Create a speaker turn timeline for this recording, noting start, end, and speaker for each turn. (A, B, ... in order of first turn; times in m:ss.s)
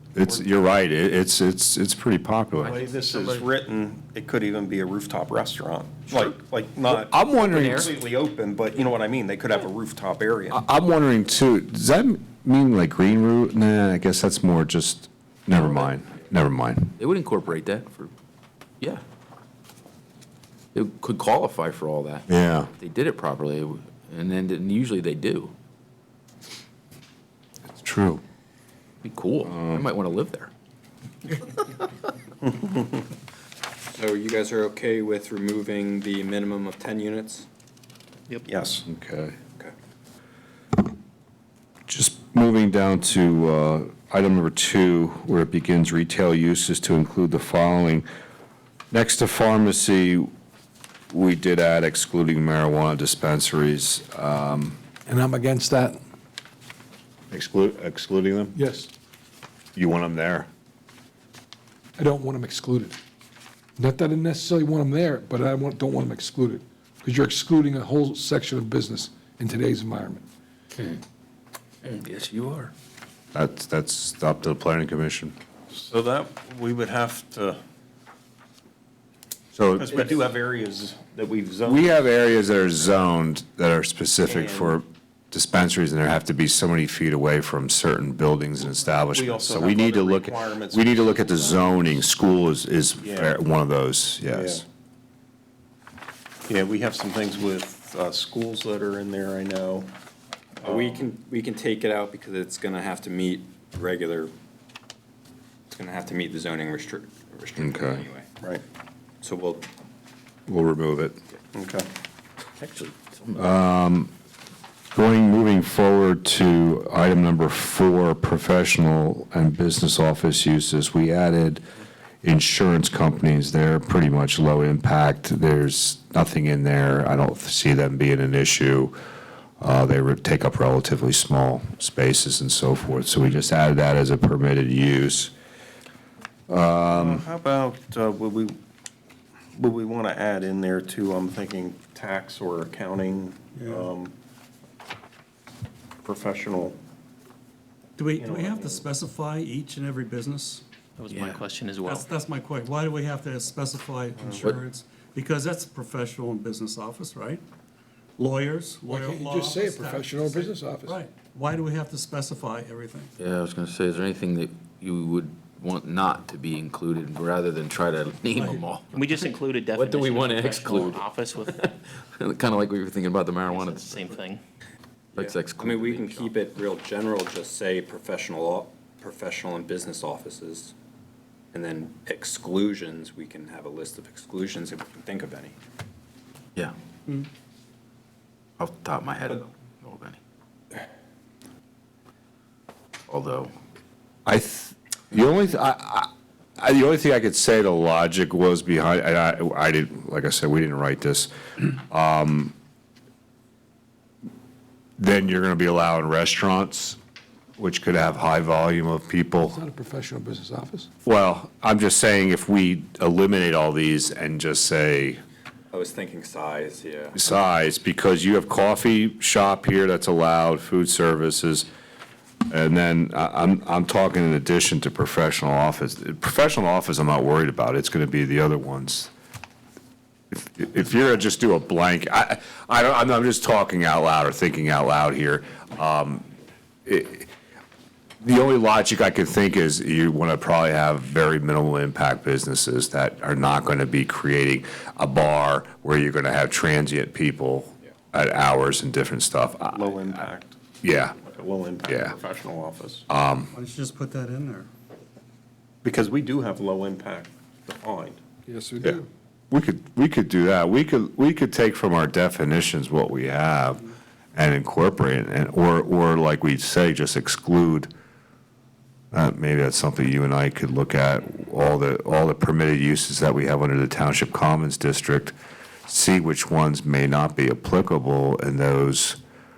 0:00.1-0:02.7 A
0:02.6-0:03.5 B
0:02.6-0:10.6 C
0:06.9-0:07.9 A
0:07.4-0:07.9 B
0:10.5-0:16.9 A
0:17.0-0:18.1 B
0:20.7-0:25.5 B
0:22.3-0:22.7 A
0:27.7-0:28.2 A
0:29.0-0:30.5 B
0:29.4-0:29.8 A
0:32.4-0:33.0 C
0:33.9-0:37.4 D
0:38.5-0:38.8 C
0:38.9-0:39.4 A
0:41.9-0:48.0 A
0:48.9-0:50.3 A
0:51.1-0:54.8 A
0:55.0-0:56.0 E
0:57.3-0:58.5 A
0:58.5-0:58.9 E
0:59.7-1:00.5 A
1:02.0-1:02.9 E
1:03.8-1:10.2 E
1:10.8-1:11.0 B
1:11.8-1:12.7 B
1:13.3-1:15.4 A
1:15.7-1:17.6 C
1:19.5-1:20.1 A
1:19.8-1:22.0 C
1:21.6-1:34.6 A
1:24.2-1:24.8 C
1:29.1-1:32.0 C
1:33.0-1:33.4 C
1:34.3-1:34.6 C
1:36.5-1:39.9 C
1:40.6-1:41.1 C
1:40.6-1:44.3 D
1:45.7-1:48.3 D
1:47.6-1:48.1 A
1:49.2-1:49.7 D
1:50.5-1:51.2 A
1:51.5-1:51.9 C
1:52.6-1:53.5 B
1:53.4-1:54.1 A
1:54.9-2:01.6 A
2:02.2-2:08.9 A
2:09.6-2:15.3 A
2:16.5-2:17.2 A
2:16.9-2:18.6 C
2:19.5-2:24.1 C
2:23.5-2:23.9 F
2:26.0-2:26.8 C
2:28.0-2:30.6 F
2:28.2-2:28.8 C
2:31.0-2:32.1 G
2:31.1-2:31.4 B
2:31.8-2:37.4 F
2:38.2-2:43.1 F
2:38.9-2:41.0 E
2:43.2-2:54.2 B
2:48.9-2:51.6 G
2:53.4-2:54.4 G
2:55.1-2:56.3 B
2:55.2-3:00.7 D
3:01.5-3:05.5 D
3:08.6-3:10.2 B
3:13.1-3:13.5 B
3:14.2-3:21.3 A
3:21.9-3:22.5 A
3:25.0-3:27.0 A
3:27.6-3:29.6 A
3:29.4-3:30.9 E
3:31.0-3:35.2 A
3:35.7-3:37.2 D
3:37.2-3:41.7 A
3:42.5-3:49.1 A
3:50.3-3:56.2 A
3:56.8-3:57.3 A
3:58.2-4:10.1 A
4:09.7-4:10.6 C
4:10.8-4:11.2 A
4:11.2-4:13.0 C
4:11.8-4:12.1 A
4:13.1-4:13.5 A
4:13.5-4:14.7 F
4:15.8-4:18.2 C
4:18.5-4:19.0 E
4:19.5-4:27.9 A
4:29.1-4:35.3 A
4:35.9-4:39.2 A